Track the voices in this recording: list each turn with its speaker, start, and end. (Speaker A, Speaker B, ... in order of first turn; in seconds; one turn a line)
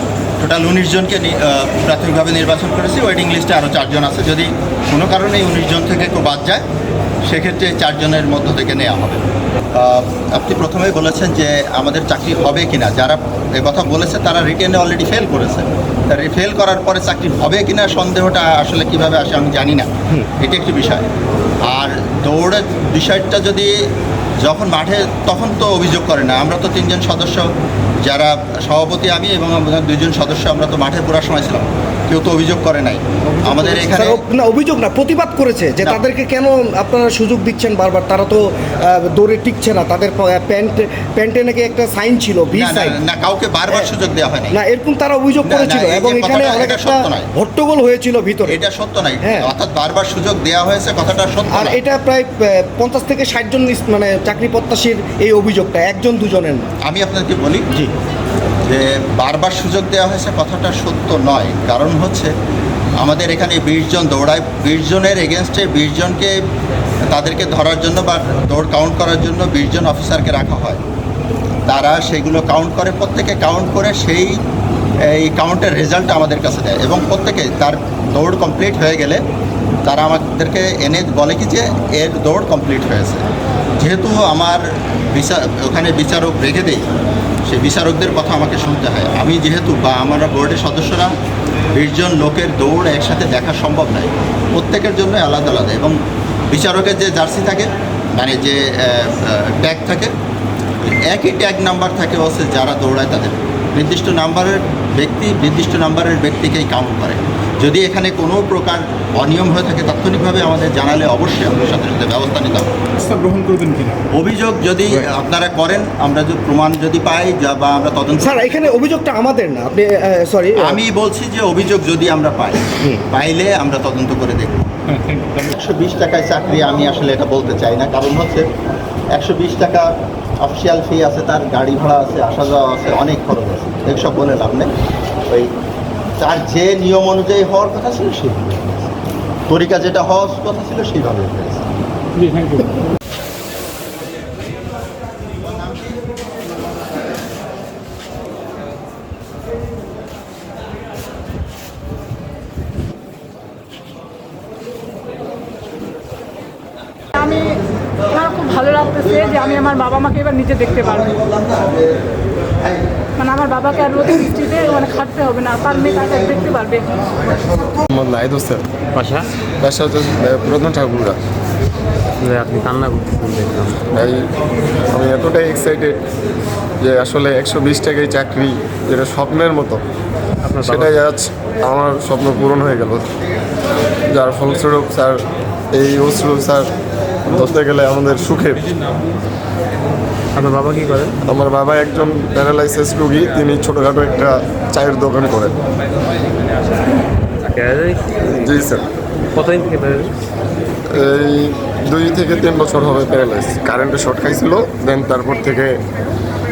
Speaker A: 0.4-6.7
Speaker A: 7.3-9.2
Speaker A: 9.7-21.1
Speaker A: 21.6-23.7
Speaker A: 24.4-27.5
Speaker A: 28.0-34.2
Speaker B: 33.4-43.0
Speaker A: 42.5-44.6
Speaker B: 44.5-48.6
Speaker A: 45.4-47.3
Speaker A: 48.5-51.8
Speaker B: 49.2-49.5
Speaker B: 51.5-56.6
Speaker A: 56.9-57.7
Speaker A: 58.6-62.3
Speaker A: 63.0-66.4
Speaker A: 67.1-70.8
Speaker A: 71.7-74.4
Speaker A: 75.0-79.2
Speaker A: 79.8-83.2
Speaker A: 83.8-86.9
Speaker A: 87.5-91.2
Speaker A: 91.8-96.0
Speaker A: 96.5-100.1
Speaker A: 100.8-112.7
Speaker C: 113.0-114.0
Speaker A: 114.1-118.7
Speaker B: 118.2-120.8
Speaker A: 120.6-124.7
Speaker C: 124.9-125.5
Speaker A: 125.5-128.5
Speaker A: 129.1-129.9
Speaker A: 130.4-134.7
Speaker A: 136.2-139.0
Speaker A: 139.5-141.7
Speaker C: 142.2-142.7
Speaker A: 145.5-145.9
Speaker D: 157.2-157.6
Speaker D: 158.1-161.2
Speaker A: 161.2-161.9
Speaker D: 163.2-167.0
Speaker E: 167.9-168.7
Speaker F: 168.9-169.3
Speaker E: 169.6-171.2
Speaker F: 172.2-173.8
Speaker E: 173.9-174.3
Speaker E: 174.9-176.0
Speaker E: 176.8-179.8
Speaker F: 180.4-180.9
Speaker E: 180.6-183.1
Speaker E: 184.1-186.7
Speaker E: 187.3-188.7
Speaker F: 190.3-191.2
Speaker E: 191.2-195.5
Speaker F: 197.4-198.5
Speaker E: 198.3-198.9
Speaker F: 199.3-200.1
Speaker E: 200.9-205.8